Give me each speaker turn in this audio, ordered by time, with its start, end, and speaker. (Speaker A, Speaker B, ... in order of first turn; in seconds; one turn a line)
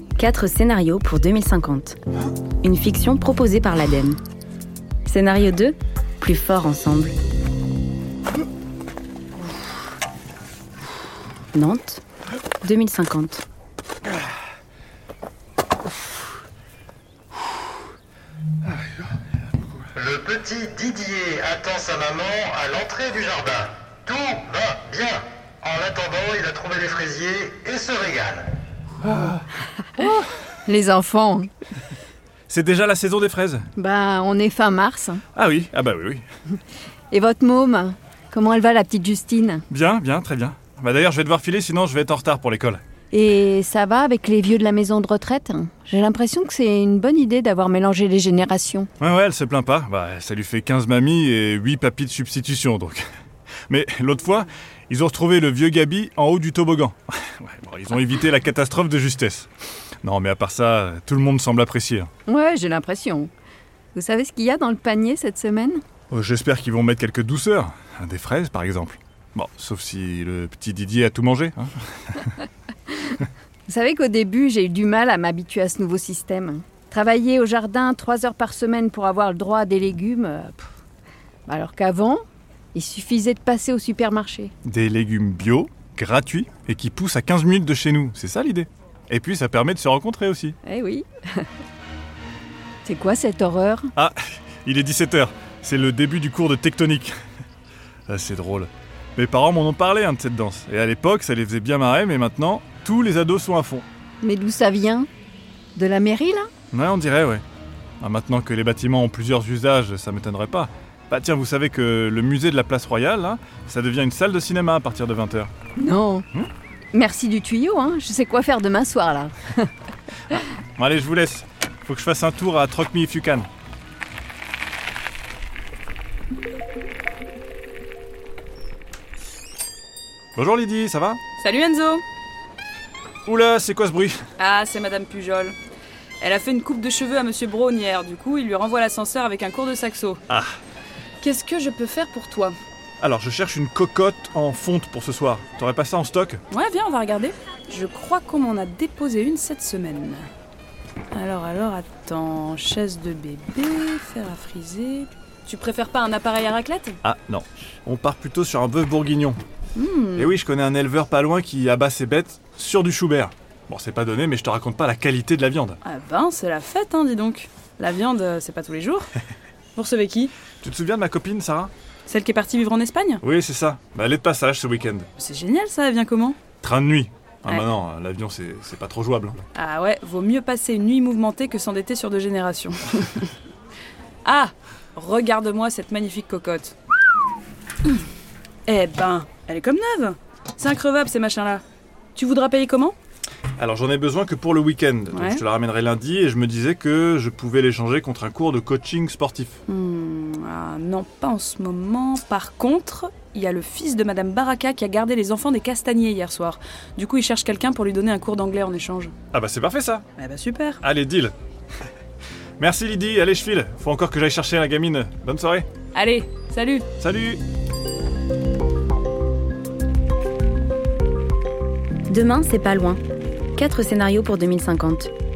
Speaker A: 0.2-2.0
Speaker A: 2.6-4.2
Speaker A: 5.0-7.2
Speaker A: 11.5-12.0
Speaker A: 12.6-13.4
Speaker B: 19.9-28.6
Speaker C: 29.9-31.5
Speaker D: 32.5-33.7
Speaker C: 33.8-35.2
Speaker D: 35.4-36.2
Speaker C: 37.1-39.6
Speaker D: 39.7-42.8
Speaker C: 43.1-48.9
Speaker D: 49.0-53.1
Speaker D: 53.7-59.5
Speaker D: 60.0-62.1
Speaker C: 62.3-63.3
Speaker C: 63.9-65.8
Speaker D: 66.1-72.4
Speaker C: 73.7-80.7
Speaker C: 81.5-82.2
Speaker C: 82.7-84.5
Speaker D: 84.7-90.6
Speaker C: 90.6-91.5
Speaker C: 92.8-93.9
Speaker D: 94.0-97.2
Speaker D: 98.1-103.9
Speaker C: 104.2-105.1
Speaker C: 105.8-106.5
Speaker D: 106.7-107.4
Speaker D: 108.0-115.5
Speaker C: 115.8-116.3
Speaker C: 116.9-119.7
Speaker D: 120.8-123.5
Speaker D: 130.4-131.2
Speaker E: 131.4-132.0
Speaker D: 133.3-134.2
Speaker E: 134.4-135.6
Speaker E: 136.2-140.2
Speaker D: 140.3-140.6
Speaker E: 141.2-142.6
Speaker D: 143.0-146.4
Speaker E: 146.5-150.3
Speaker E: 151.1-157.0
Speaker D: 157.0-159.4
Speaker E: 159.8-160.3
Speaker D: 160.2-165.8
Speaker E: 165.8-169.1
Speaker E: 169.8-170.3
Speaker D: 170.6-171.7
Speaker E: 172.1-173.2
Speaker D: 173.2-175.1
Speaker E: 175.2-176.4
Speaker D: 176.6-179.4
Speaker E: 179.6-183.3
Speaker E: 184.2-186.8
Speaker E: 188.7-191.6
Speaker E: 192.2-193.0
Speaker D: 193.6-199.6
Speaker E: 195.1-195.4
Speaker E: 199.7-209.1
Speaker D: 209.3-210.1
Speaker E: 210.2-210.8
Speaker D: 210.8-211.3
Speaker D: 212.6-215.7
Speaker E: 215.9-216.9
Speaker D: 217.0-217.4
Speaker A: 222.1-223.0
Speaker A: 223.6-225.1